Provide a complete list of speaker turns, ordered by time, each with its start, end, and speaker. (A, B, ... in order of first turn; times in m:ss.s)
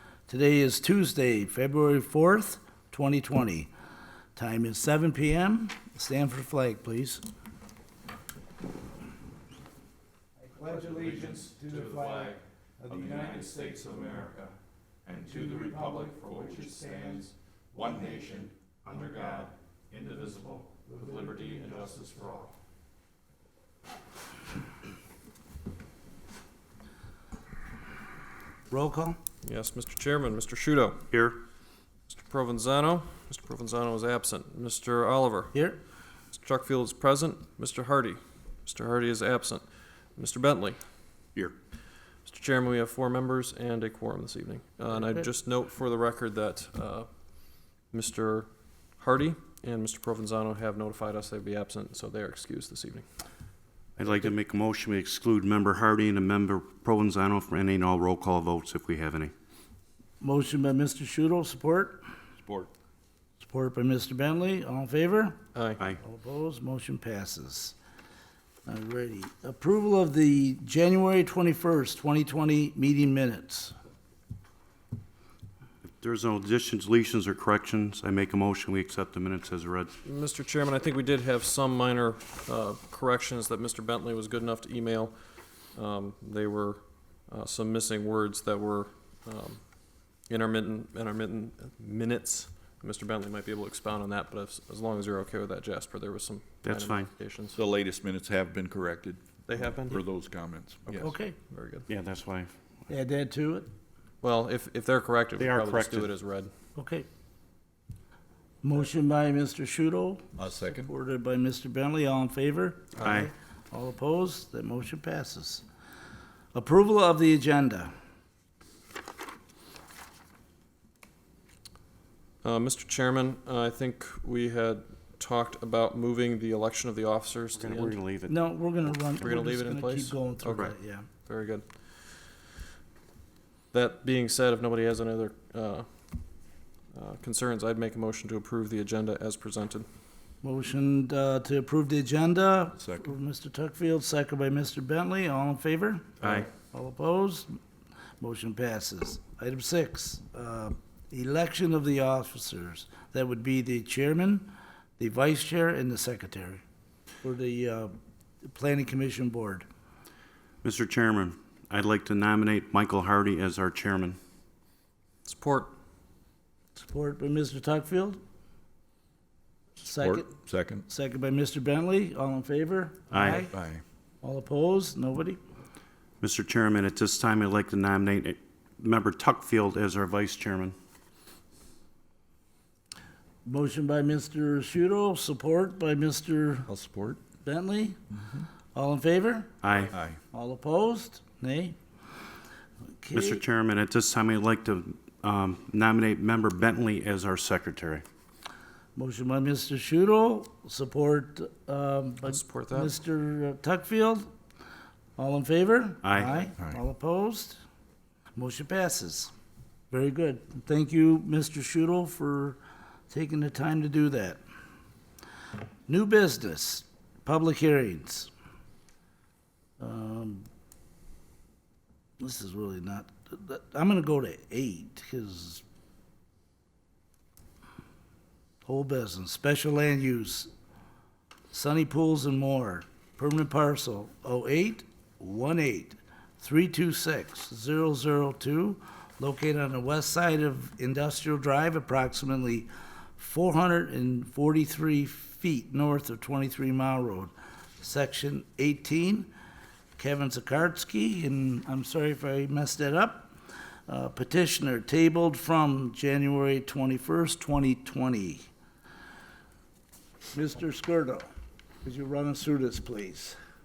0:00.3-0:03.7 A
0:04.4-0:07.2 A
0:10.4-0:13.6 A
0:10.7-0:22.5 B
0:15.3-0:17.2 A
0:28.7-0:29.2 A
0:29.4-0:31.0 C
0:31.1-0:31.4 D
0:32.1-0:35.6 C
0:35.5-0:35.8 A
0:36.3-0:40.8 C
0:42.2-0:53.0 C
0:44.9-0:45.2 A
0:54.0-0:59.3 D
1:00.2-1:02.0 A
1:02.4-1:02.7 B
1:03.4-1:05.4 A
1:05.5-1:05.8 C
1:06.0-1:07.7 A
1:08.6-1:13.7 A
1:16.0-1:19.9 D
1:20.0-1:25.1 C
1:25.7-1:29.6 C
1:30.3-1:37.6 C
1:36.6-1:37.1 D
1:37.5-1:41.1 B
1:39.5-1:40.0 C
1:40.9-1:41.9 C
1:41.0-1:41.4 A
1:41.9-1:42.5 D
1:42.9-1:43.7 A
1:44.2-1:46.5 C
1:45.4-1:46.1 D
1:46.8-1:47.0 A
1:48.6-1:55.6 A
1:50.4-1:50.9 B
1:53.0-1:53.3 D
1:56.5-1:57.9 A
2:02.4-2:08.0 C
2:07.5-2:08.4 D
2:08.3-2:11.1 A
2:09.2-2:10.7 C
2:11.2-2:11.8 C
2:13.7-2:15.9 C
2:16.9-2:19.8 C
2:20.4-2:27.5 A
2:22.8-2:23.1 B
2:26.2-2:26.5 D
2:28.2-2:36.6 A
2:37.2-2:37.9 A
2:38.4-2:39.6 A
2:40.6-2:44.2 D
2:45.2-2:45.7 C
2:46.8-2:48.2 A
2:49.8-2:50.3 A
2:50.0-2:50.8 B
2:50.9-2:53.5 A
2:53.1-2:53.5 D
2:53.5-2:53.8 B
2:54.2-2:55.4 A
2:56.2-3:00.7 D
3:03.4-3:06.7 A
3:06.7-3:07.2 B
3:07.4-3:08.0 A
3:08.7-3:09.5 A
3:09.6-3:10.0 D
3:09.9-3:10.2 B
3:10.3-3:11.8 A
3:13.0-3:13.4 A
3:13.1-3:18.0 D
3:19.0-3:24.3 A
3:22.2-3:23.0 C
3:25.2-3:27.6 A
3:26.0-3:26.5 D
3:28.4-3:29.3 A
3:29.9-3:34.4 A
3:35.9-3:38.3 A
3:39.8-3:40.5 A
3:42.2-3:45.6 A
3:48.6-3:50.5 A
3:51.5-4:09.3 A
4:10.0-4:13.3 A
4:13.9-4:18.5 A
4:20.3-4:21.3 A
4:21.8-4:23.4 A